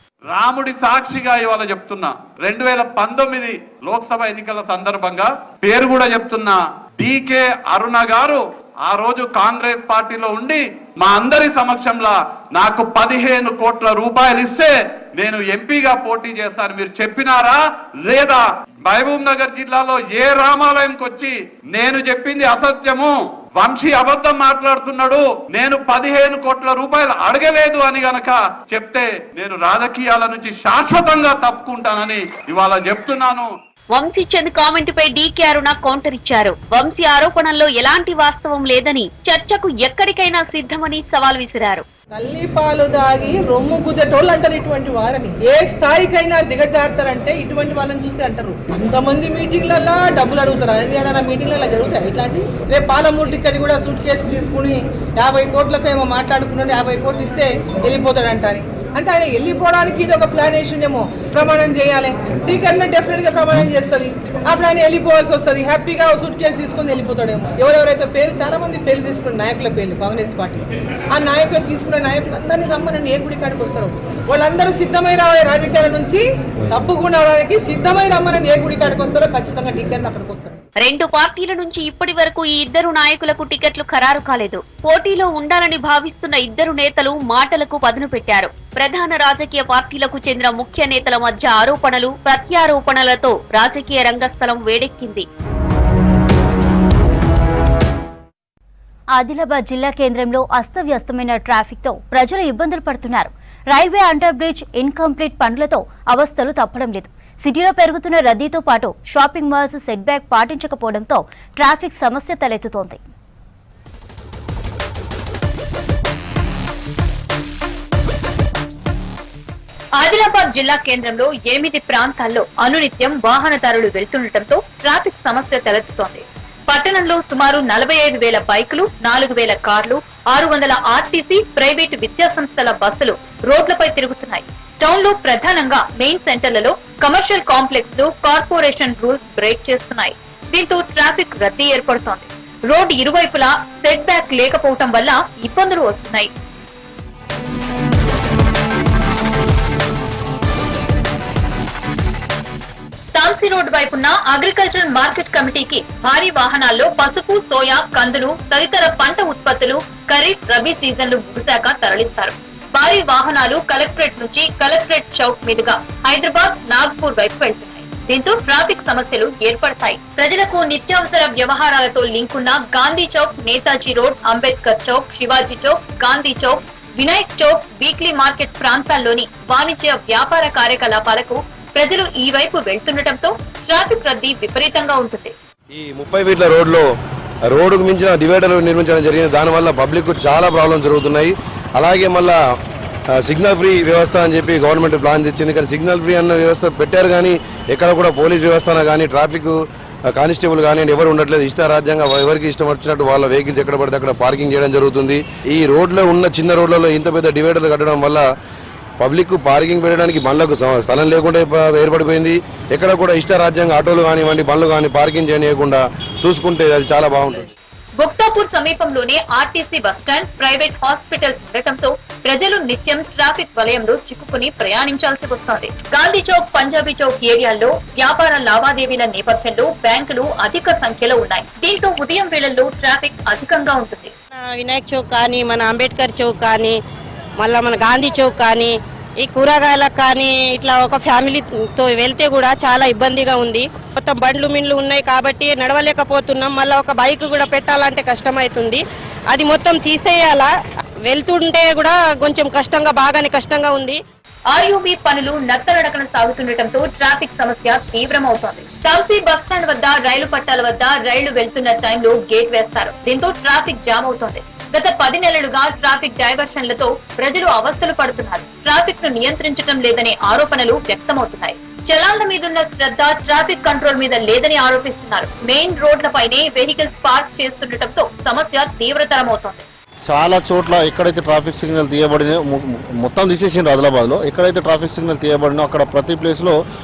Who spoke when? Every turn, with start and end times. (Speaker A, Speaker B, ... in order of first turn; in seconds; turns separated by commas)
Speaker A: 0.3-33.5, Speaker B: 33.9-41.8, Speaker C: 42.1-80.6, Speaker B: 80.8-95.2, Speaker D: 99.1-113.0, Speaker E: 120.0-146.3, Speaker E: 153.2-185.3, Speaker F: 185.7-186.8, Speaker F: 187.5-192.3, Speaker F: 193.2-199.6, Speaker F: 200.1-208.2, Speaker F: 209.0-217.5, Speaker E: 218.0-234.1, Speaker G: 234.3-236.8, Speaker G: 237.4-250.5, Speaker G: 251.1-254.0, Speaker E: 254.5-279.6, Speaker H: 280.0-286.6